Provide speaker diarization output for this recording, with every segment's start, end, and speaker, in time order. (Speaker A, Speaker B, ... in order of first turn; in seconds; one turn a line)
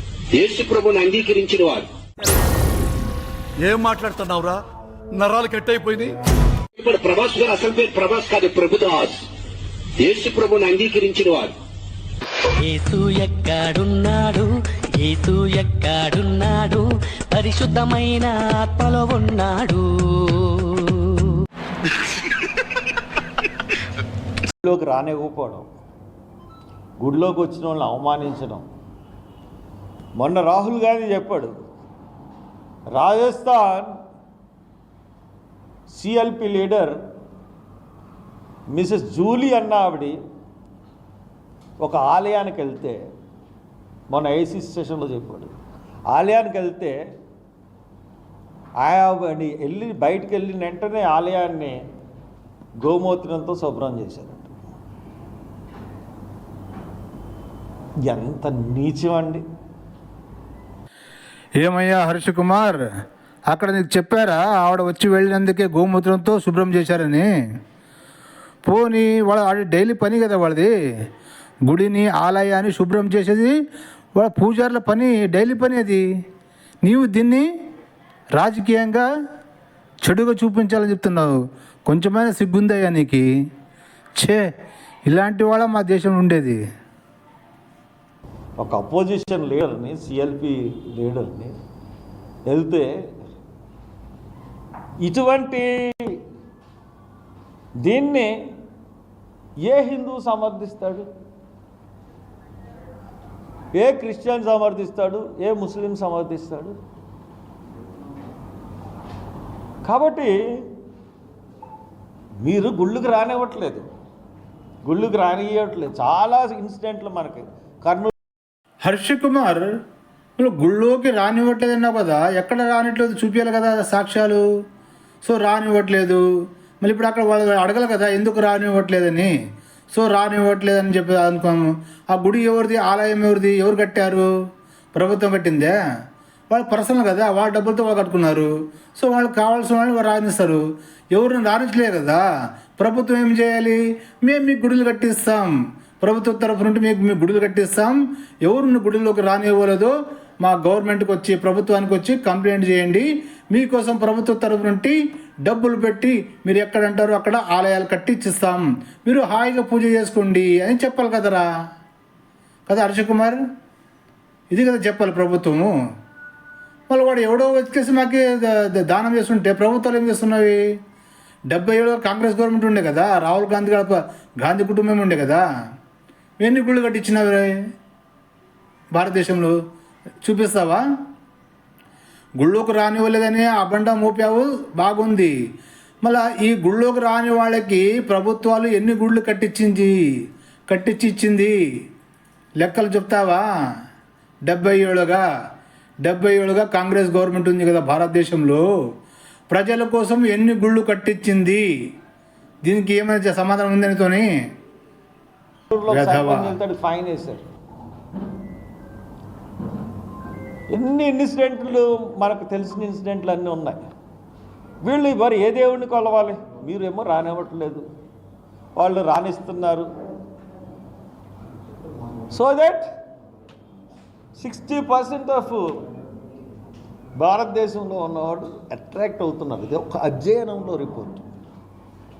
Speaker A: 0.3-1.9
Speaker B: 3.6-6.2
Speaker A: 6.8-9.2
Speaker A: 10.0-11.5
Speaker C: 12.6-14.5
Speaker C: 15.0-19.8
Speaker D: 24.5-25.7
Speaker D: 27.0-28.6
Speaker D: 30.2-31.5
Speaker D: 32.9-33.9
Speaker D: 35.9-37.0
Speaker D: 38.7-40.2
Speaker D: 41.8-43.0
Speaker D: 44.1-45.5
Speaker D: 46.1-47.0
Speaker D: 48.8-51.8
Speaker D: 52.8-54.5
Speaker D: 58.0-59.4
Speaker E: 61.6-62.8
Speaker E: 63.5-67.3
Speaker E: 68.6-70.7
Speaker E: 71.7-73.5
Speaker E: 74.2-76.0
Speaker E: 76.8-77.5
Speaker E: 78.4-79.0
Speaker E: 80.0-81.3
Speaker E: 81.9-83.2
Speaker E: 85.1-86.6
Speaker D: 88.6-91.5
Speaker D: 92.5-92.9
Speaker D: 95.0-96.2
Speaker D: 97.8-98.3
Speaker D: 99.6-101.1
Speaker D: 103.7-106.7
Speaker D: 109.8-110.3
Speaker D: 112.4-113.8
Speaker D: 114.8-118.1
Speaker E: 118.8-119.7
Speaker E: 120.4-124.4
Speaker E: 125.2-126.2
Speaker E: 126.8-129.3
Speaker E: 129.9-134.3
Speaker E: 134.9-135.7
Speaker E: 136.5-140.6
Speaker E: 141.1-142.2
Speaker E: 142.8-161.4
Speaker E: 162.7-163.4
Speaker E: 164.5-165.7
Speaker E: 166.9-170.6
Speaker E: 171.5-175.4
Speaker E: 176.4-177.5
Speaker E: 178.9-179.5
Speaker E: 180.2-180.8
Speaker E: 182.4-185.3
Speaker E: 186.0-189.9
Speaker E: 190.7-191.6
Speaker E: 192.6-193.4
Speaker E: 194.5-195.2
Speaker E: 196.0-198.6
Speaker E: 199.5-201.6
Speaker E: 202.6-204.3
Speaker D: 205.7-207.4
Speaker E: 205.9-206.5
Speaker D: 210.7-213.8
Speaker D: 214.8-217.8
Speaker D: 218.8-219.9
Speaker D: 222.3-222.9
Speaker D: 224.3-225.8
Speaker D: 227.2-231.3